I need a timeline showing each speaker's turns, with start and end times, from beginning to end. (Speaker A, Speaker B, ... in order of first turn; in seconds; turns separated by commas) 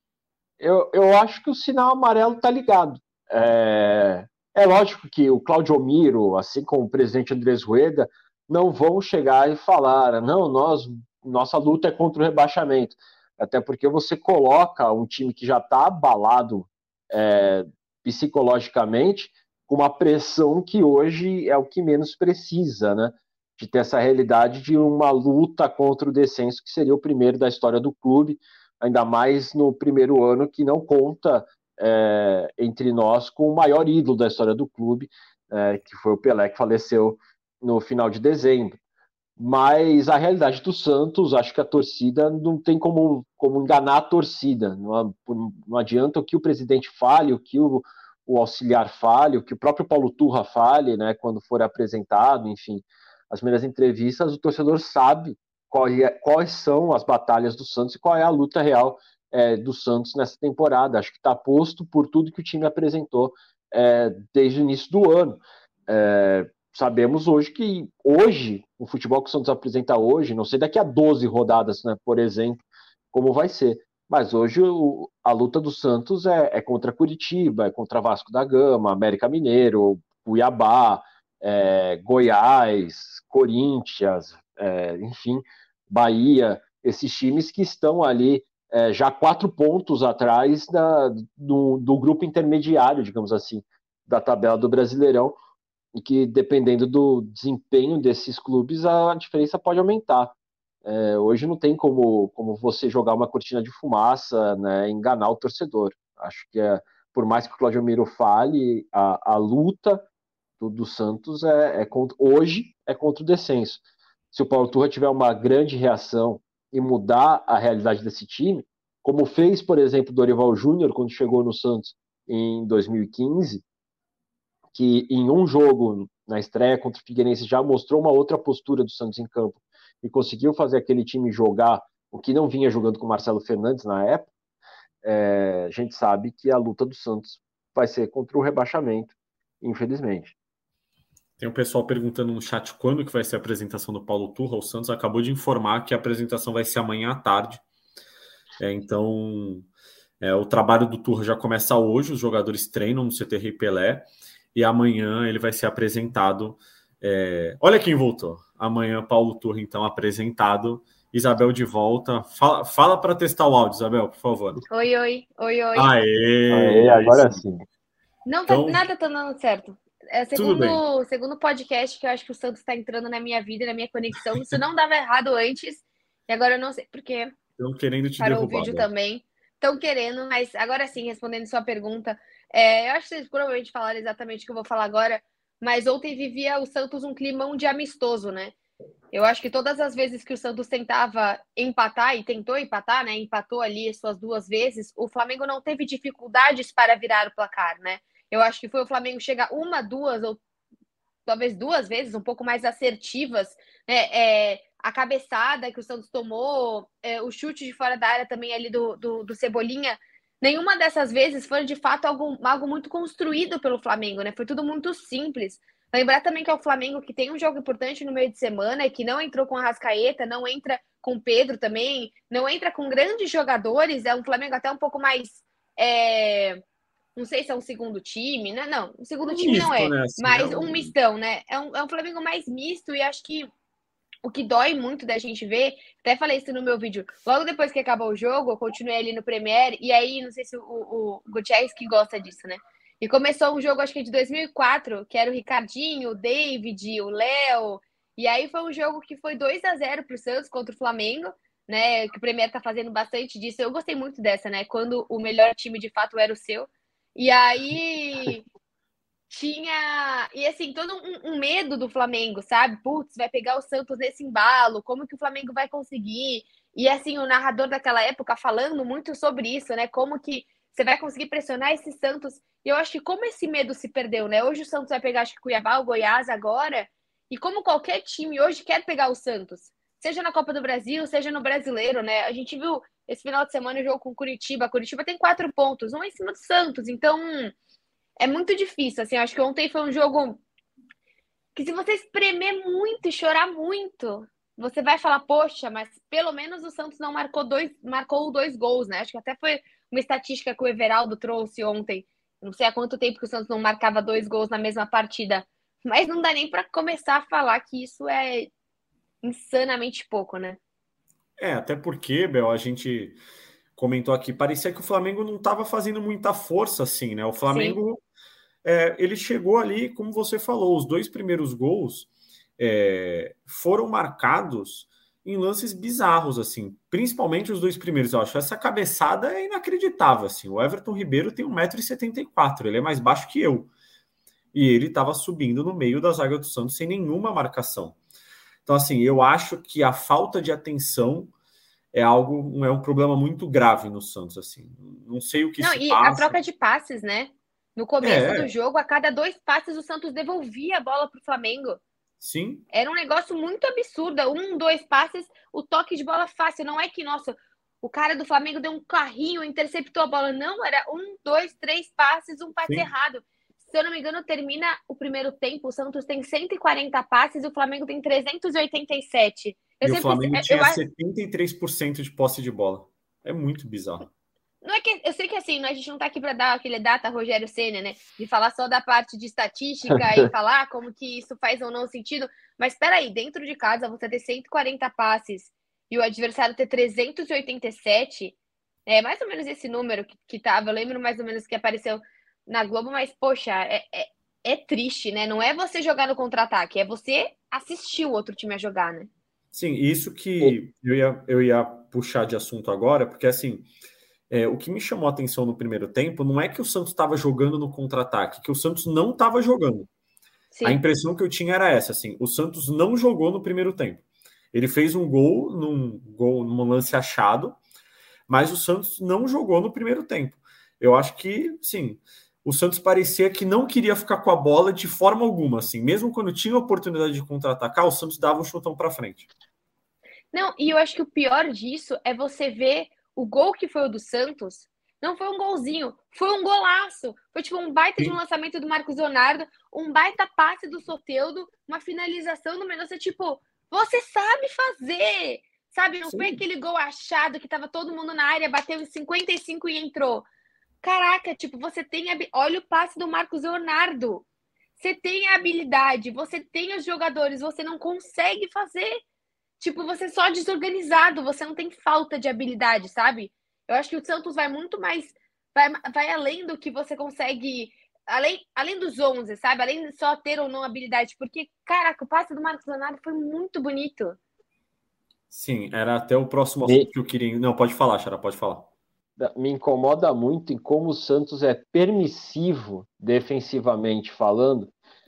Speaker A: 0.6-38.8, Speaker A: 39.4-95.4, Speaker A: 96.0-110.0, Speaker A: 110.6-123.6, Speaker A: 124.7-134.3, Speaker A: 135.0-140.3, Speaker B: 141.4-147.6, Speaker B: 148.6-149.7, Speaker B: 150.2-164.6, Speaker C: 164.7-165.9, Speaker B: 165.7-167.4, Speaker A: 166.5-167.6, Speaker C: 168.2-177.3, Speaker B: 168.5-168.8, Speaker B: 170.3-170.8, Speaker B: 177.6-178.9, Speaker C: 178.2-188.5, Speaker C: 189.1-200.4, Speaker C: 201.2-226.6, Speaker C: 227.2-233.5, Speaker B: 229.2-230.9, Speaker C: 234.2-258.4, Speaker C: 259.3-287.5, Speaker C: 288.2-290.4, Speaker C: 291.5-308.5, Speaker C: 309.2-310.6, Speaker B: 311.4-313.2, Speaker B: 313.8-318.0, Speaker C: 317.5-317.8, Speaker B: 318.6-333.7, Speaker B: 334.5-338.0, Speaker B: 338.6-341.3, Speaker B: 341.9-346.4, Speaker C: 345.6-351.8, Speaker B: 348.0-348.5, Speaker B: 352.2-352.6, Speaker C: 352.7-370.8, Speaker B: 369.8-374.1, Speaker C: 374.6-399.1, Speaker B: 399.5-403.7, Speaker B: 404.3-409.9, Speaker C: 410.5-410.8, Speaker B: 410.6-417.6, Speaker B: 418.3-429.3, Speaker C: 430.3-450.2, Speaker C: 450.8-454.2, Speaker C: 454.8-459.0, Speaker C: 459.6-474.2, Speaker B: 475.3-478.7, Speaker A: 479.2-484.7